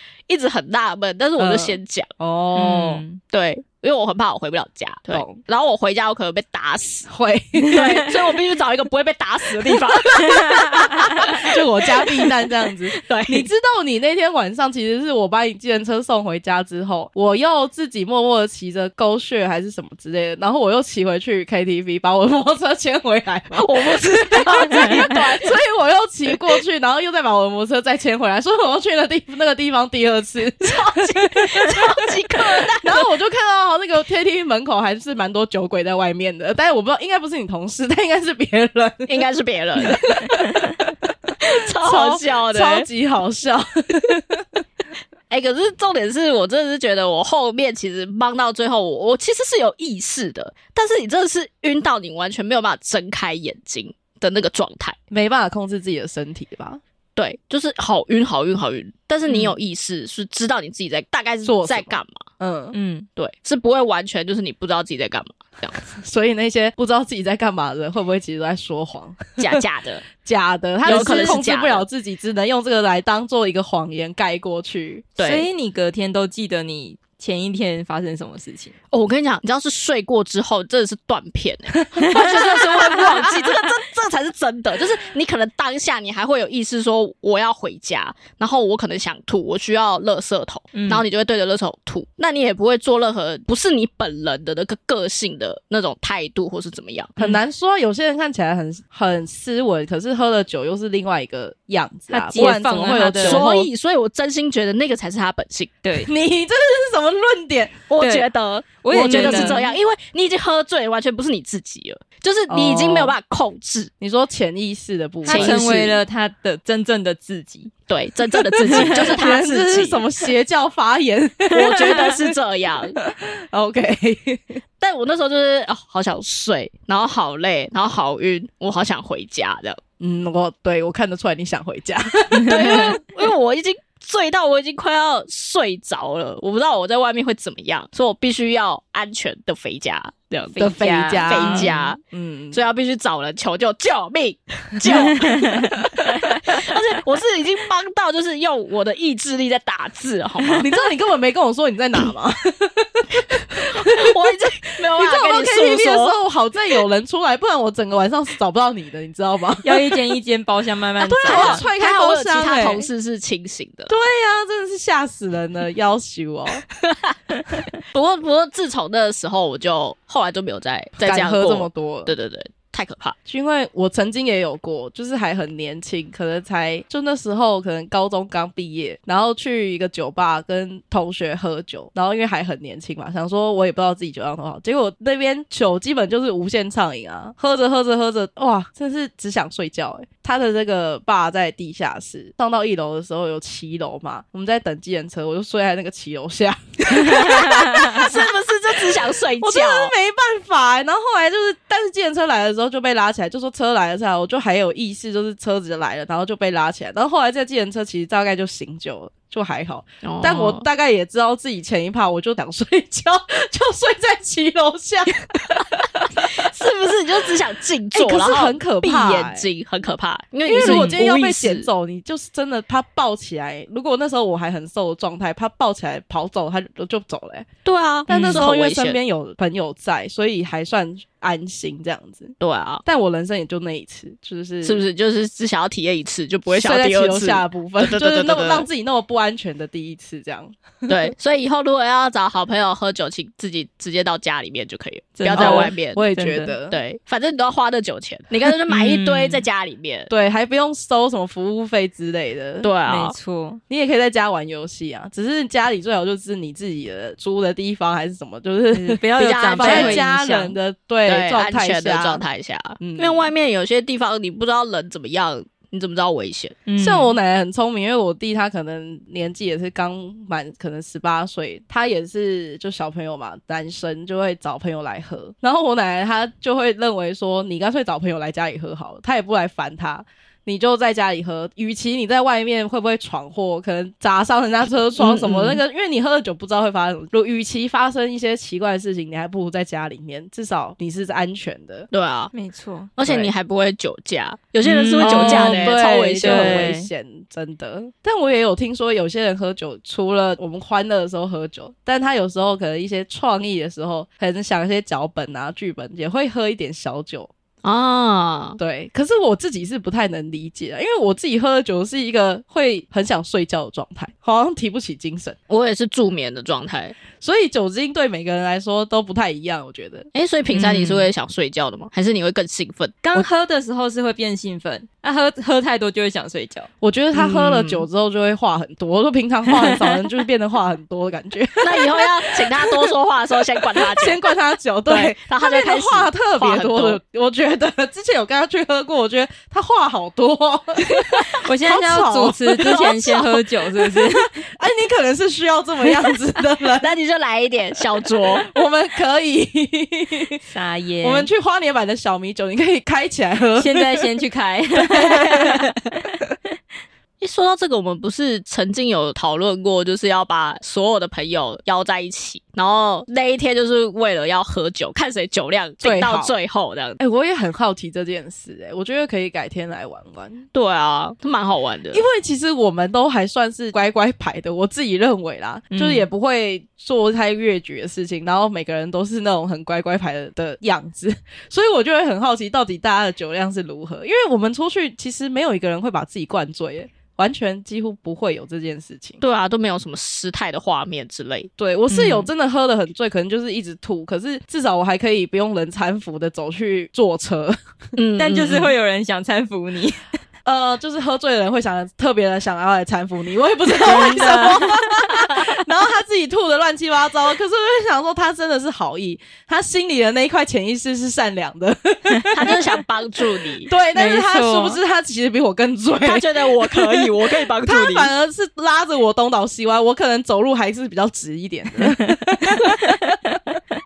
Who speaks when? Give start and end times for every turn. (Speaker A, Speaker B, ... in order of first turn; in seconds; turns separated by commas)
Speaker A: 0.3-2.1, Speaker B: 1.4-3.0, Speaker C: 2.5-3.2, Speaker A: 3.3-7.1, Speaker B: 5.1-5.4, Speaker B: 7.1-8.1, Speaker A: 7.6-11.6, Speaker C: 10.2-10.9, Speaker B: 11.2-32.0, Speaker A: 12.9-13.5, Speaker A: 23.5-25.6, Speaker A: 30.6-33.1, Speaker B: 32.7-39.2, Speaker A: 39.1-40.3, Speaker B: 39.8-40.9, Speaker A: 41.4-42.9, Speaker B: 41.8-44.4, Speaker A: 45.3-55.0, Speaker B: 55.1-56.8, Speaker A: 57.1-62.2, Speaker B: 61.4-62.8, Speaker C: 62.7-63.1, Speaker A: 63.2-65.8, Speaker B: 65.9-69.6, Speaker A: 69.4-70.0, Speaker B: 70.2-75.1, Speaker A: 70.8-71.8, Speaker C: 70.8-71.4, Speaker A: 75.2-75.5, Speaker C: 75.2-78.7, Speaker A: 78.9-97.2, Speaker B: 81.9-82.3, Speaker C: 82.1-83.1, Speaker C: 90.7-91.0, Speaker B: 97.2-103.7, Speaker C: 102.1-103.5, Speaker A: 103.2-105.7, Speaker C: 105.8-106.1, Speaker B: 106.0-107.8, Speaker A: 107.9-113.9, Speaker C: 108.0-108.3, Speaker C: 108.8-109.6, Speaker B: 108.9-109.7, Speaker B: 112.5-113.1, Speaker B: 114.0-116.0, Speaker C: 115.2-117.7, Speaker A: 115.2-115.7, Speaker A: 117.9-120.0, Speaker B: 118.3-122.2, Speaker C: 118.7-119.1, Speaker A: 121.5-123.0, Speaker B: 123.1-124.6, Speaker A: 124.8-129.8, Speaker B: 130.0-133.0, Speaker A: 132.4-142.0, Speaker B: 140.6-142.6, Speaker C: 140.8-141.7, Speaker A: 142.5-150.7, Speaker C: 144.9-145.7, Speaker B: 150.6-154.1, Speaker A: 153.6-156.2, Speaker B: 154.9-159.8, Speaker C: 159.6-161.6, Speaker A: 161.0-163.9, Speaker B: 161.2-162.9, Speaker B: 163.9-166.6, Speaker A: 167.9-173.2, Speaker B: 171.0-172.1, Speaker B: 173.2-198.3, Speaker A: 197.1-199.9, Speaker B: 199.4-216.2, Speaker A: 210.0-210.7, Speaker A: 216.2-221.7, Speaker B: 217.9-219.4, Speaker B: 220.4-227.5, Speaker C: 220.6-220.9, Speaker A: 227.6-229.0, Speaker B: 228.1-234.8, Speaker A: 232.4-232.8, Speaker A: 234.6-238.7, Speaker B: 236.5-240.9, Speaker A: 240.9-246.0, Speaker C: 245.2-246.5, Speaker B: 245.3-246.8, Speaker A: 246.7-250.1, Speaker C: 248.7-249.4, Speaker B: 250.1-252.7, Speaker A: 252.6-253.2, Speaker C: 252.8-253.6, Speaker B: 253.7-259.0, Speaker C: 258.7-260.5, Speaker A: 259.2-260.1, Speaker B: 259.5-262.2, Speaker A: 261.1-266.6, Speaker B: 262.8-263.3, Speaker C: 266.7-267.1, Speaker B: 266.8-291.9, Speaker A: 285.0-285.6, Speaker A: 291.9-292.3, Speaker C: 292.3-293.2, Speaker A: 293.0-296.8, Speaker C: 294.6-296.9, Speaker B: 295.0-307.3, Speaker A: 307.6-308.6, Speaker B: 308.6-315.4, Speaker A: 315.5-316.9, Speaker B: 317.2-320.1, Speaker A: 320.1-323.1, Speaker C: 320.5-321.1, Speaker C: 323.0-326.7, Speaker B: 326.8-332.9, Speaker A: 327.1-327.9, Speaker A: 331.6-334.2, Speaker B: 333.7-343.3, Speaker A: 334.9-337.0, Speaker A: 340.9-341.3, Speaker C: 341.4-344.3, Speaker A: 342.6-343.3, Speaker B: 343.8-346.9, Speaker A: 346.8-348.5, Speaker B: 348.4-350.4, Speaker C: 350.5-351.3, Speaker B: 351.0-354.1, Speaker C: 353.6-356.0, Speaker B: 354.9-355.6, Speaker A: 357.2-367.0, Speaker B: 365.8-366.3, Speaker B: 367.0-370.4, Speaker A: 370.5-372.0, Speaker B: 371.9-389.2, Speaker C: 375.7-376.1, Speaker A: 389.2-391.5, Speaker B: 391.6-397.6, Speaker C: 391.9-392.3, Speaker A: 398.0-398.7, Speaker C: 398.2-400.0, Speaker B: 400.4-412.6, Speaker C: 403.8-404.9, Speaker A: 412.3-413.7, Speaker B: 413.6-423.4, Speaker C: 413.9-414.8, Speaker A: 416.0-418.1